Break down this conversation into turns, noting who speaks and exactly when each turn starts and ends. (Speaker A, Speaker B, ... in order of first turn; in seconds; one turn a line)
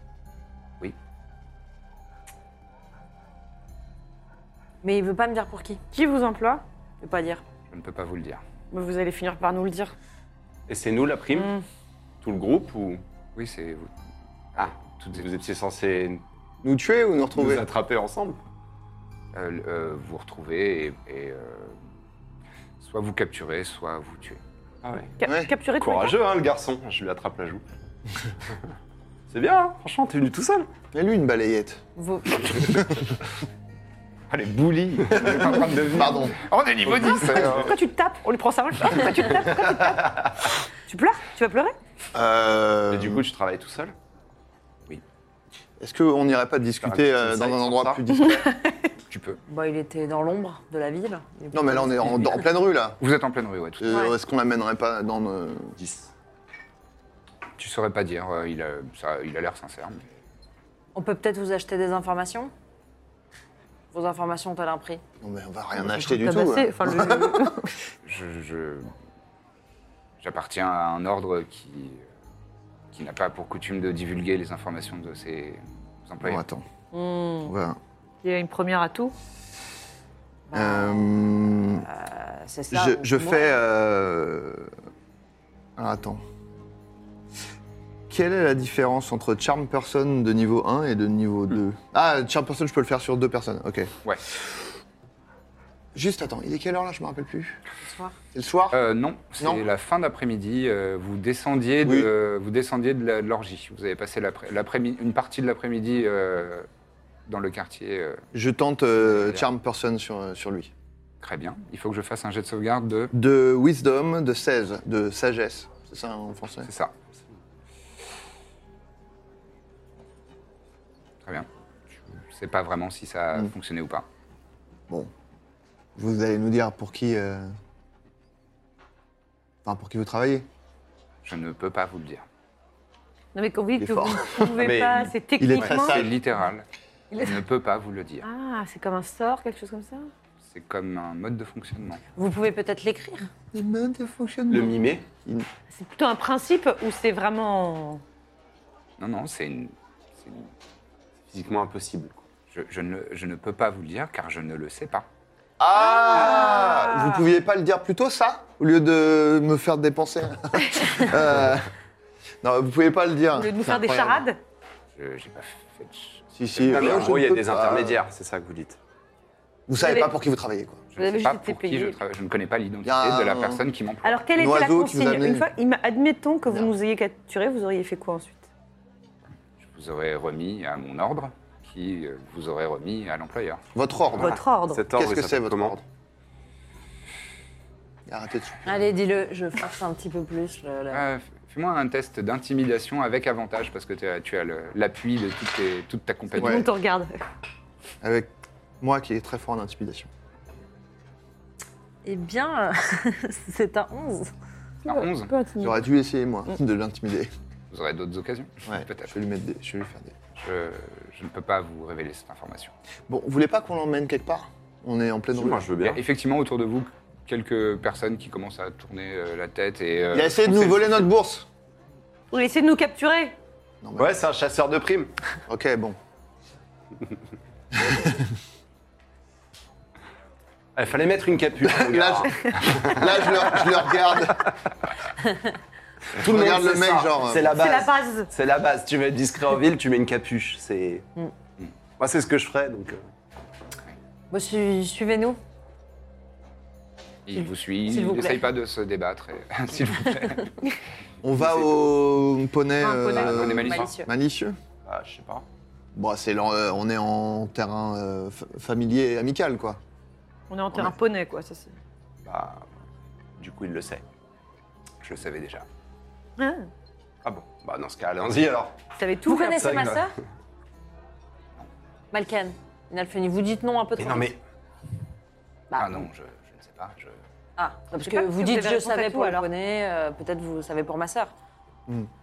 Speaker A: 4.8-5.8
Speaker B: 5.9-6.6
Speaker A: 7.0-7.4
Speaker C: 7.7-8.4
Speaker B: 8.7-9.9
Speaker D: 10.7-11.5
Speaker B: 11.3-11.6
Speaker D: 12.2-13.0
Speaker C: 13.4-13.9
Speaker C: 14.6-15.4
Speaker D: 14.6-16.2
Speaker E: 16.6-17.7
Speaker D: 17.4-18.4
Speaker C: 19.3-21.8
Speaker C: 22.8-24.4
Speaker D: 24.8-25.1
Speaker B: 25.2-26.2
Speaker E: 25.2-25.5
Speaker D: 25.8-27.6
Speaker D: 29.3-30.7
Speaker E: 30.9-31.8
Speaker A: 32.0-32.4
Speaker C: 34.3-37.7
Speaker E: 35.1-36.4
Speaker D: 36.9-37.7
Speaker B: 37.6-40.2
Speaker B: 40.9-41.8
Speaker E: 42.1-43.3
Speaker D: 42.9-43.9
Speaker E: 45.8-48.5
Speaker D: 46.8-48.0
Speaker B: 48.3-48.7
Speaker C: 49.1-49.4
Speaker A: 49.5-52.4
Speaker E: 51.5-53.0
Speaker C: 53.0-53.9
Speaker E: 53.8-55.8
Speaker D: 55.8-56.1
Speaker C: 57.6-60.0
Speaker A: 61.0-62.5
Speaker A: 63.9-65.0
Speaker E: 65.2-67.7
Speaker B: 65.8-67.7
Speaker C: 68.0-68.9
Speaker C: 70.2-72.0
Speaker C: 72.9-76.4
Speaker E: 76.2-76.7
Speaker B: 76.9-77.5
Speaker E: 77.4-77.8
Speaker B: 78.2-79.1
Speaker A: 80.5-83.6
Speaker E: 80.5-81.8
Speaker E: 82.7-84.7
Speaker E: 85.8-86.2
Speaker E: 88.1-94.7
Speaker E: 96.0-97.6
Speaker A: 97.8-98.2
Speaker E: 98.3-98.8
Speaker C: 98.7-106.7
Speaker E: 101.8-102.1
Speaker C: 107.3-108.2
Speaker E: 108.3-110.7
Speaker C: 109.1-109.4
Speaker C: 111.2-113.1
Speaker E: 113.1-116.7
Speaker C: 116.7-116.9
Speaker C: 122.0-124.1
Speaker E: 126.0-127.5
Speaker E: 129.7-130.5
Speaker C: 131.2-132.3
Speaker B: 133.3-136.0
Speaker E: 133.8-134.8
Speaker D: 134.6-135.2
Speaker E: 135.4-136.1
Speaker C: 135.6-138.3
Speaker B: 138.2-140.1
Speaker C: 140.4-142.0
Speaker A: 142.2-143.3
Speaker E: 143.5-145.5
Speaker D: 144.5-145.1
Speaker B: 145.7-148.0
Speaker C: 149.0-150.5
Speaker D: 151.3-152.2
Speaker C: 152.5-155.1
Speaker E: 155.6-161.7
Speaker B: 155.8-157.2
Speaker E: 162.4-164.3
Speaker B: 163.3-164.4
Speaker C: 165.0-167.1
Speaker E: 166.3-168.0
Speaker D: 166.6-168.8
Speaker E: 169.7-170.8
Speaker B: 169.8-170.1
Speaker C: 170.9-174.2
Speaker B: 171.0-172.0
Speaker E: 172.8-173.6
Speaker B: 174.0-178.5
Speaker E: 174.4-175.5
Speaker C: 179.6-183.6
Speaker E: 183.8-184.4
Speaker D: 184.2-185.8
Speaker B: 184.2-184.8
Speaker E: 184.9-185.8
Speaker E: 188.1-189.0
Speaker A: 188.7-191.0
Speaker C: 190.9-196.7
Speaker B: 196.4-197.2
Speaker E: 196.4-196.7
Speaker E: 198.0-200.1
Speaker A: 202.0-204.3
Speaker C: 204.8-205.3
Speaker B: 204.9-205.8
Speaker E: 205.6-207.3
Speaker C: 207.7-209.1
Speaker E: 208.7-210.2
Speaker C: 210.4-212.7
Speaker E: 213.1-215.7
Speaker D: 215.3-216.0
Speaker C: 215.8-220.8
Speaker E: 220.1-221.5
Speaker B: 222.3-223.3
Speaker E: 223.8-224.2
Speaker D: 224.0-225.1
Speaker E: 225.5-226.0
Speaker E: 227.7-228.3
Speaker D: 230.8-233.9
Speaker E: 231.6-234.5
Speaker E: 236.2-237.6
Speaker D: 236.2-241.1
Speaker B: 237.5-238.3
Speaker D: 242.0-243.0
Speaker A: 244.3-245.4
Speaker C: 247.3-250.5
Speaker A: 247.4-248.5
Speaker E: 251.2-254.6
Speaker C: 251.4-251.8
Speaker B: 252.8-253.4
Speaker D: 253.2-253.7
Speaker C: 253.2-253.9
Speaker A: 253.5-254.1
Speaker D: 254.8-255.5
Speaker E: 255.9-259.8
Speaker B: 260.5-261.7
Speaker D: 262.2-262.7
Speaker D: 263.4-264.0
Speaker C: 265.0-265.7
Speaker B: 266.4-266.7
Speaker D: 267.2-268.8
Speaker B: 269.0-269.9
Speaker A: 269.2-270.1
Speaker D: 269.5-270.1
Speaker A: 272.1-274.4
Speaker D: 274.0-274.4
Speaker A: 275.7-276.1
Speaker C: 275.7-277.2
Speaker A: 277.6-281.3
Speaker B: 278.0-279.5